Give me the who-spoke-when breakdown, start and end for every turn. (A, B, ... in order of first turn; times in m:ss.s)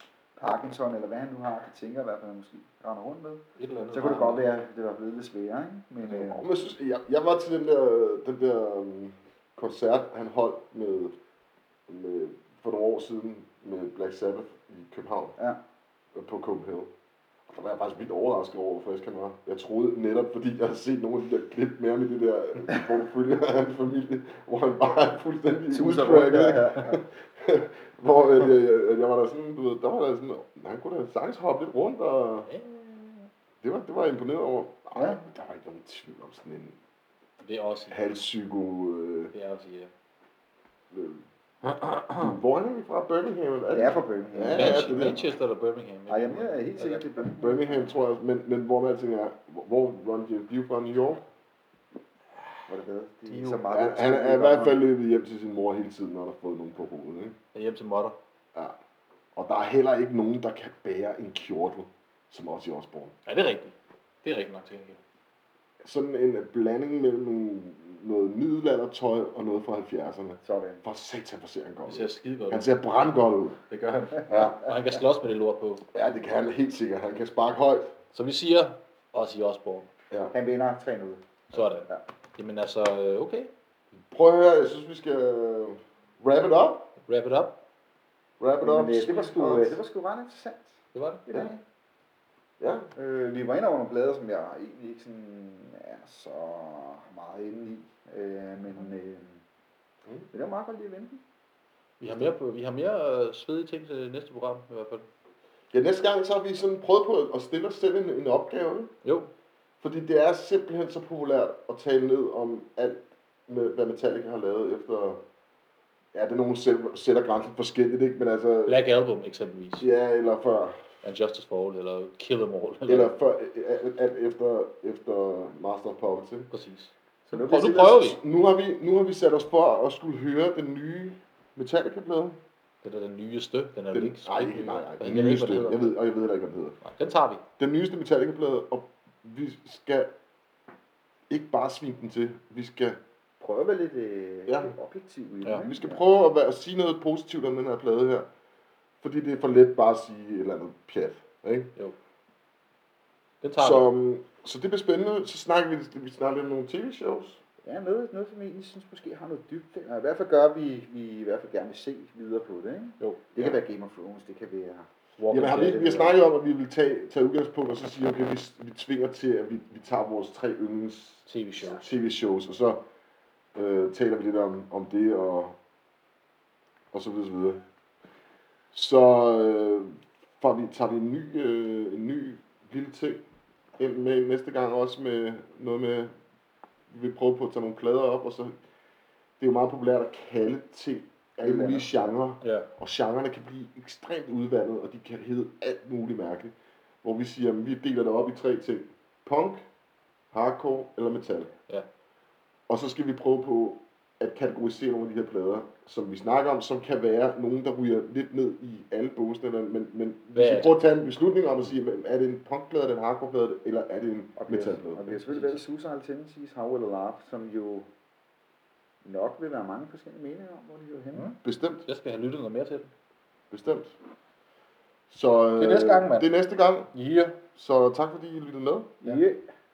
0:00.4-0:06.4 A
0:03.6-0:04.5 B
0:06.0-0:11.2 C
0:11.9-0:15.4 C
0:16.1-0:16.9 C
0:17.5-0:32.5 C
0:25.7-0:27.0 A
0:32.5-0:33.3 B
0:33.6-0:36.8 C
0:37.4-0:38.0 B
0:37.9-0:39.3 C
0:39.3-0:39.9 B
0:40.9-0:45.2 C
0:41.7-0:42.3 B
0:43.7-0:45.3 A
0:44.5-0:46.8 B
0:46.1-0:47.9 A
0:47.2-0:51.2 C
0:52.7-0:54.8 A
0:53.3-0:53.6 B
0:53.7-0:57.4 C
0:57.5-0:58.2 B
0:59.3-1:03.1 C
1:03.2-1:05.0 B
1:05.8-1:13.6 C
1:10.4-1:10.8 A
1:11.8-1:12.7 B
1:13.7-1:15.8 B
1:14.3-1:14.6 C
1:15.9-1:17.9 C
1:18.1-1:19.9 B
1:20.3-1:21.2 A
1:21.5-1:23.5 B
1:24.1-1:26.9 C
1:27.1-1:27.6 B
1:28.4-1:29.8 C
1:28.6-1:31.6 A
1:30.9-1:31.2 B
1:32.6-1:32.9 C
1:33.0-1:39.4 A
1:40.3-1:41.2 A
1:42.0-1:45.1 B
1:45.7-1:48.9 C
1:49.0-1:49.3 B
1:49.8-1:55.2 C
1:56.1-1:58.8 C
1:58.6-1:59.9 B
1:59.8-2:00.8 C
2:01.0-2:03.1 B
2:02.9-2:06.5 C
2:06.5-2:08.2 B
2:07.3-2:08.0 A
2:07.9-2:12.4 C
2:12.8-2:15.9 B
2:13.9-2:16.8 C
2:16.8-2:17.4 B
2:17.6-2:20.1 C
2:21.3-2:23.0 C
2:23.4-2:26.0 A
2:24.5-2:24.7 C
2:25.6-2:28.3 C
2:29.0-2:31.7 C
2:33.4-2:33.8 B
2:33.6-2:37.4 C
2:37.6-2:44.9 A
2:45.2-2:46.2 B
2:45.3-2:52.8 C
2:51.2-2:51.8 B
2:53.5-2:55.5 C
2:56.9-2:57.6 C
2:58.7-3:03.2 C
3:03.8-3:06.1 C
3:06.9-3:08.5 C
3:09.4-3:19.6 C
3:11.4-3:12.1 A
3:12.4-3:12.7 B
3:20.3-3:21.5 C
3:22.7-3:35.2 C
3:30.3-3:30.7 B
3:34.4-3:37.9 A
3:35.3-3:35.6 B
3:39.0-3:41.3 A
3:41.1-3:42.9 B
3:41.4-3:41.8 C
3:43.5-3:44.0 C
3:45.1-3:46.9 C
3:45.6-3:46.3 B
3:46.9-3:47.4 B
3:47.5-3:49.0 C
3:49.0-3:49.4 A